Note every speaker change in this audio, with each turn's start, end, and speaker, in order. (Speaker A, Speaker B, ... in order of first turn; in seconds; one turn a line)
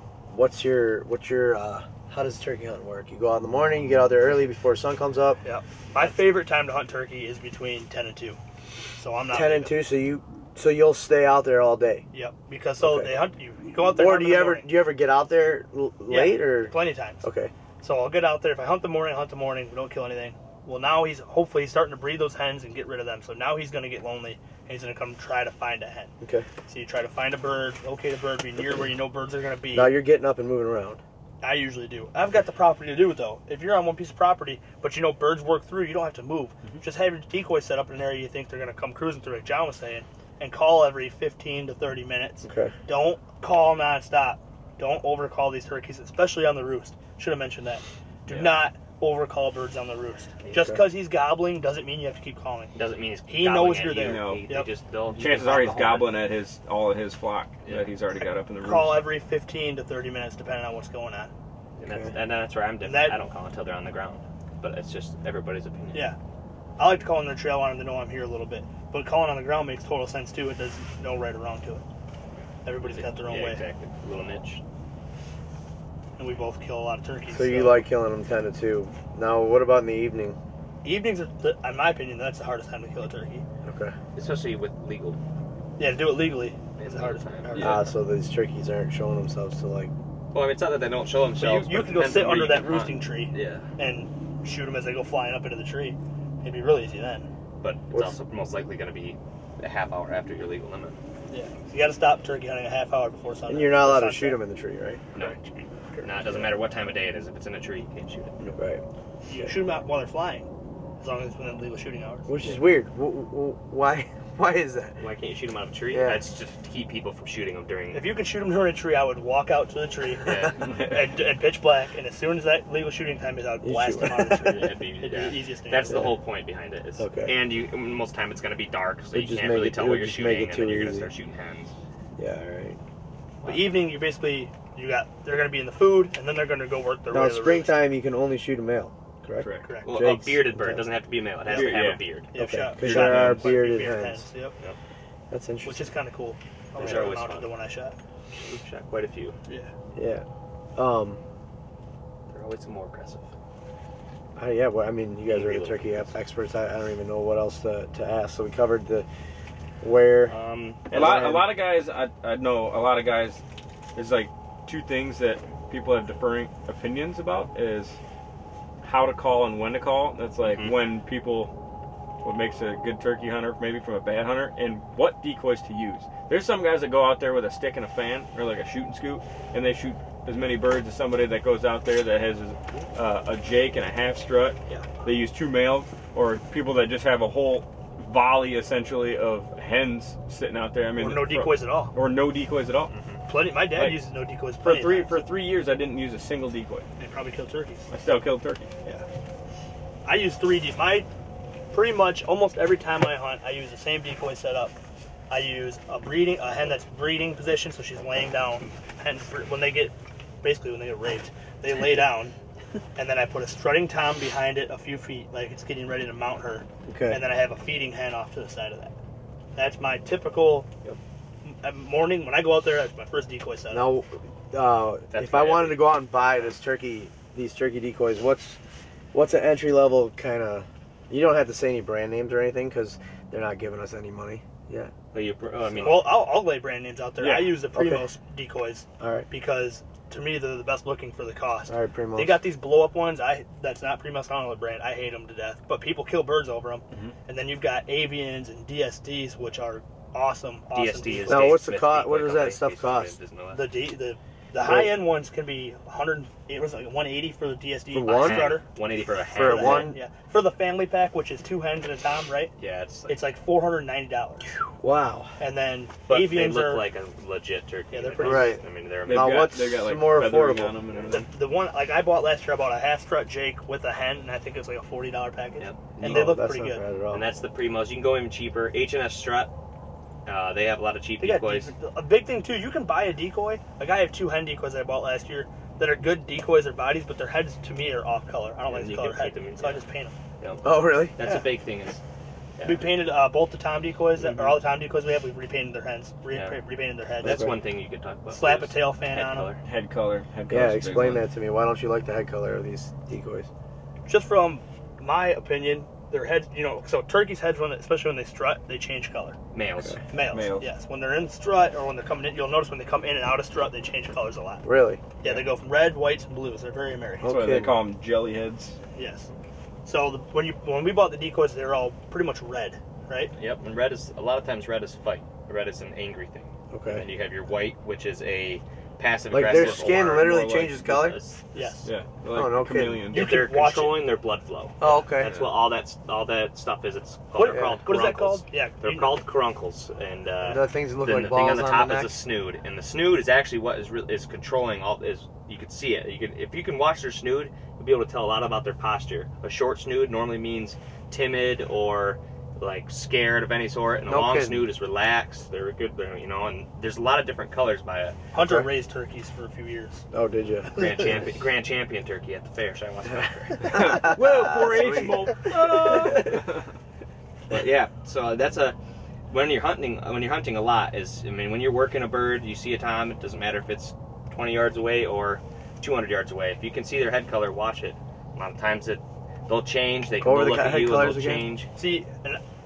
Speaker A: 0.3-5.4
Speaker B: 5.4-8.4
Speaker B: 9.0-9.8
Speaker A: 9.3-12.0
Speaker B: 12.1-14.7
Speaker A: 12.8-13.1
Speaker A: 13.8-17.5
Speaker B: 16.1-17.2
Speaker B: 17.8-26.1
Speaker A: 26.2-26.4
Speaker B: 26.7-30.0
Speaker A: 29.7-31.0
Speaker B: 31.4-52.8
Speaker A: 42.4-42.7
Speaker A: 50.5-50.8
Speaker C: 52.7-56.2
Speaker B: 53.3-54.7
Speaker D: 54.0-54.5
Speaker D: 55.1-59.1
Speaker C: 57.6-57.9
Speaker B: 58.6-61.3
Speaker C: 61.8-66.1
Speaker A: 61.8-62.1
Speaker B: 62.8-63.2
Speaker B: 66.8-71.8
Speaker B: 72.6-73.7
Speaker C: 72.8-74.6
Speaker B: 76.2-77.9
Speaker A: 77.3-80.4
Speaker B: 80.8-83.4
Speaker A: 83.6-83.9
Speaker C: 84.1-85.2
Speaker B: 85.8-87.8
Speaker C: 86.8-87.8
Speaker D: 87.5-87.8
Speaker A: 87.6-89.9
Speaker C: 90.3-93.6
Speaker B: 91.4-97.3
Speaker C: 97.6-101.0
Speaker B: 101.3-104.4
Speaker A: 103.5-105.0
Speaker C: 105.1-105.4
Speaker C: 106.0-108.4
Speaker A: 106.2-106.5
Speaker A: 108.4-108.8
Speaker B: 109.3-110.5
Speaker B: 111.0-112.3
Speaker A: 112.3-115.0
Speaker C: 115.0-118.1
Speaker A: 115.9-116.2
Speaker B: 117.9-126.0
Speaker C: 120.2-120.7
Speaker D: 120.6-121.0
Speaker A: 123.6-124.6
Speaker C: 124.2-131.7
Speaker A: 125.9-126.2
Speaker A: 127.0-127.4
Speaker A: 129.1-131.1
Speaker A: 132.2-132.8
Speaker C: 133.4-133.8
Speaker B: 133.4-137.8
Speaker A: 137.1-140.9
Speaker D: 139.4-139.7
Speaker B: 139.6-139.9
Speaker C: 139.8-142.3
Speaker B: 141.5-144.6
Speaker D: 141.5-142.0
Speaker A: 142.3-144.2
Speaker D: 142.8-143.6
Speaker A: 145.3-145.9
Speaker B: 145.6-147.9
Speaker C: 146.8-147.5
Speaker A: 146.8-147.1
Speaker C: 148.4-149.4
Speaker A: 149.9-150.2
Speaker A: 150.8-151.2
Speaker C: 152.3-153.3
Speaker A: 154.4-159.1
Speaker C: 155.3-156.1
Speaker A: 159.8-160.3
Speaker C: 160.3-160.8
Speaker A: 160.9-161.5
Speaker D: 160.9-163.4
Speaker D: 163.9-168.0
Speaker D: 168.8-171.5
Speaker C: 170.4-170.8
Speaker D: 172.2-192.9
Speaker B: 191.0-191.9
Speaker C: 192.9-193.2
Speaker B: 193.3-195.2
Speaker D: 193.7-194.1
Speaker D: 194.6-196.9
Speaker B: 197.0-197.9
Speaker D: 197.9-198.7
Speaker B: 200.1-201.1
Speaker B: 201.7-204.8
Speaker B: 205.3-212.3
Speaker B: 212.9-218.9
Speaker A: 216.9-217.3
Speaker B: 219.6-220.7
Speaker B: 221.4-223.9
Speaker A: 223.7-228.6
Speaker C: 225.1-226.5
Speaker A: 229.1-234.9
Speaker C: 235.1-236.2
Speaker B: 235.8-251.6
Speaker D: 237.2-237.6
Speaker A: 237.7-238.1
Speaker A: 239.0-239.3
Speaker A: 241.7-242.4
Speaker C: 250.7-253.8
Speaker A: 251.3-253.1
Speaker B: 253.5-258.6
Speaker A: 254.6-255.0
Speaker A: 257.9-258.6
Speaker C: 258.1-259.9
Speaker A: 259.3-260.0
Speaker B: 259.4-262.5
Speaker C: 262.6-263.2
Speaker B: 263.1-264.5
Speaker A: 264.8-265.3
Speaker B: 265.4-266.9
Speaker C: 266.1-269.5
Speaker B: 267.9-268.6
Speaker A: 268.2-270.8
Speaker D: 269.0-271.3
Speaker B: 271.1-276.8
Speaker C: 275.6-276.4
Speaker A: 276.0-277.3
Speaker C: 277.1-279.5
Speaker C: 280.3-281.7
Speaker B: 281.2-290.1
Speaker C: 288.7-289.8
Speaker C: 290.4-292.0
Speaker A: 290.6-291.2
Speaker C: 292.6-292.9
Speaker B: 292.6-297.5
Speaker C: 294.3-294.6
Speaker C: 296.3-296.6
Speaker C: 297.2-299.6
Speaker A: 297.2-297.5
Speaker B: 298.3-299.5
Speaker D: 299.6-301.2
Speaker A: 300.5-303.5
Speaker B: 304.1-309.4
Speaker C: 309.5-310.0
Speaker B: 310.1-314.6
Speaker D: 310.3-310.7
Speaker A: 314.6-315.0
Speaker B: 315.2-317.3
Speaker A: 317.2-317.8
Speaker D: 317.2-318.8
Speaker B: 318.9-319.3
Speaker B: 319.8-323.3
Speaker C: 323.4-331.8
Speaker A: 326.7-327.1
Speaker A: 329.3-331.2
Speaker D: 329.5-330.8
Speaker B: 331.5-331.9
Speaker D: 331.8-333.4
Speaker A: 332.3-333.1
Speaker B: 333.1-334.1
Speaker C: 333.1-358.2
Speaker A: 334.8-335.5
Speaker B: 337.3-339.2
Speaker A: 337.4-337.8
Speaker A: 340.4-342.1
Speaker A: 354.1-354.7
Speaker B: 358.3-360.1
Speaker A: 358.4-358.7
Speaker A: 360.1-361.3
Speaker C: 360.7-364.4
Speaker D: 363.6-366.7
Speaker A: 363.7-365.2
Speaker C: 365.4-366.5
Speaker C: 367.5-368.8
Speaker C: 369.3-381.7
Speaker A: 380.2-381.5
Speaker B: 381.7-382.4